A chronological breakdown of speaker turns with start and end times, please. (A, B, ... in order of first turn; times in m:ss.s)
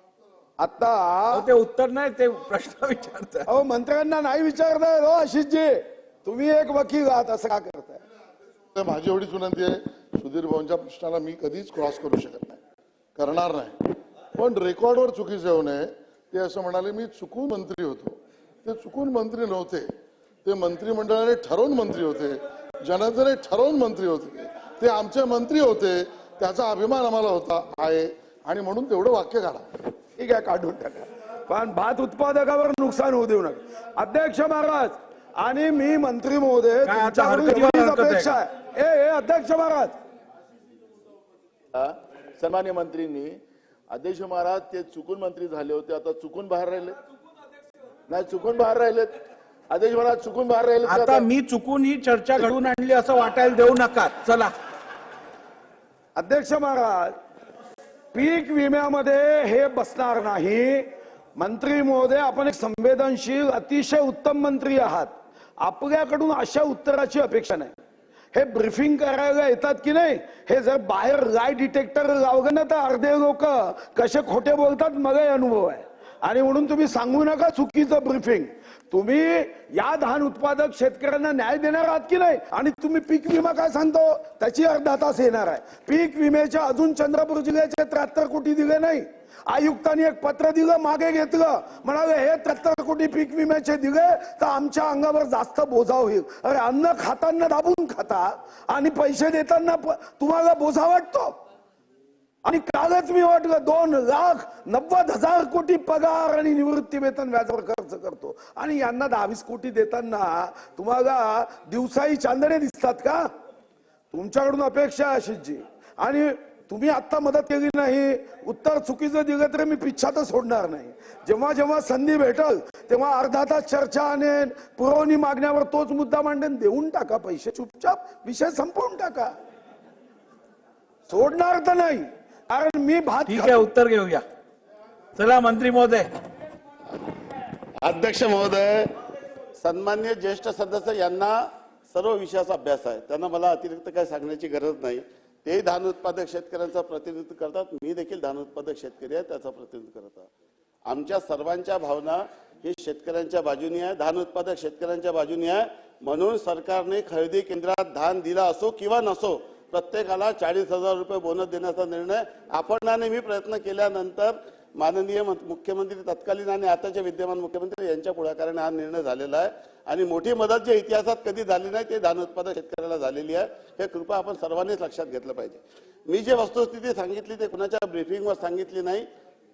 0:00.6-0:01.5 A
0:01.3-0:03.5 B
0:03.5-0:08.0 A
0:08.7-0:12.6 C
0:13.2-0:19.9 C
0:20.4-0:29.7 C
0:30.2-0:39.9 A
0:36.8-0:38.4 B
0:41.7-0:43.4 D
0:43.9-0:47.0 D
0:48.1-0:49.1 D
0:49.7-0:51.3 D
0:50.8-0:54.5 B
0:56.2-0:57.1 A
0:58.1-1:07.7 A
1:08.3-1:41.3 A
1:42.4-1:53.3 A
1:54.1-2:09.3 A
2:11.1-2:13.7 A
2:13.3-2:14.2 B
2:15.2-2:16.1 B
2:17.8-2:18.9 E
2:19.6-2:21.3 E
2:21.9-2:30.3 E
2:30.8-2:59.0 E